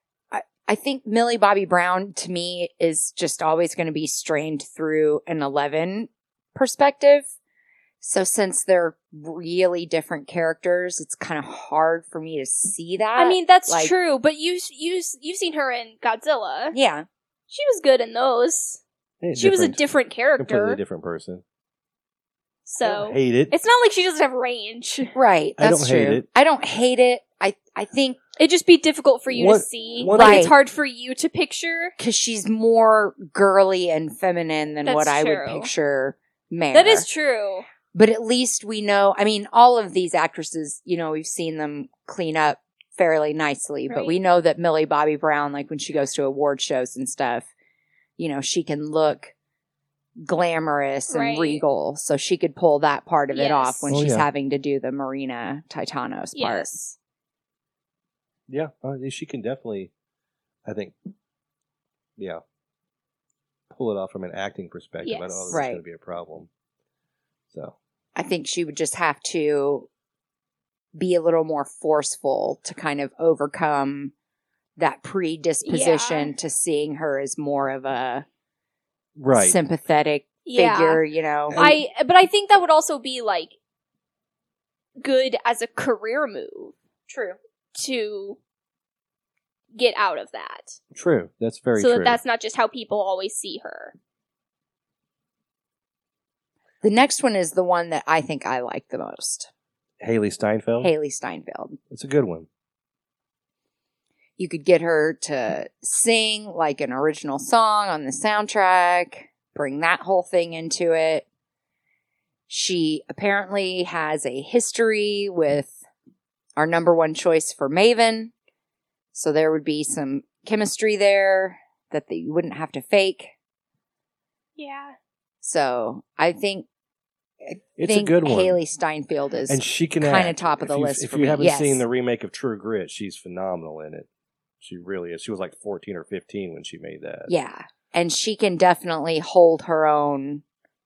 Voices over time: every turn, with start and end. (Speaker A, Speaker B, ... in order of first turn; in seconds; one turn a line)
Speaker A: 0.3-7.3
Speaker A: 8.0-13.9
Speaker B: 13.2-16.8
Speaker A: 16.7-17.1
Speaker B: 17.5-18.8
Speaker C: 19.2-19.8
Speaker B: 19.4-20.8
Speaker C: 20.4-21.4
Speaker B: 22.6-25.1
Speaker C: 22.8-23.5
Speaker A: 25.1-28.2
Speaker C: 25.6-26.2
Speaker B: 28.4-31.9
Speaker C: 29.3-30.5
Speaker A: 30.1-30.5
Speaker A: 32.0-37.0
Speaker B: 34.8-35.7
Speaker B: 36.7-37.6
Speaker A: 37.9-47.5
Speaker B: 43.9-44.2
Speaker A: 48.2-49.3
Speaker A: 50.2-56.8
Speaker B: 51.1-51.6
Speaker B: 53.3-54.0
Speaker C: 53.9-54.2
Speaker B: 56.3-56.9
Speaker C: 58.5-59.9
Speaker C: 60.6-60.9
Speaker C: 63.7-66.5
Speaker B: 65.0-65.6
Speaker A: 65.5-65.8
Speaker A: 68.2-69.9
Speaker A: 70.9-74.1
Speaker A: 74.8-78.2
Speaker B: 75.6-76.3
Speaker C: 79.2-79.6
Speaker A: 79.3-81.7
Speaker B: 80.4-81.0
Speaker B: 81.6-83.5
Speaker B: 85.0-86.7
Speaker A: 87.1-87.4
Speaker B: 87.7-88.4
Speaker B: 89.7-90.8
Speaker C: 90.9-92.2
Speaker B: 91.8-93.9
Speaker A: 96.8-99.5
Speaker C: 100.0-100.9
Speaker A: 100.8-101.8
Speaker C: 101.9-102.5
Speaker A: 104.4-111.2
Speaker A: 112.5-115.8
Speaker A: 116.6-118.3
Speaker A: 119.1-123.3
Speaker B: 124.6-125.0
Speaker A: 125.4-126.7
Speaker A: 127.4-131.8
Speaker C: 127.8-128.6
Speaker C: 129.5-134.1
Speaker C: 134.6-137.3
Speaker A: 137.3-140.4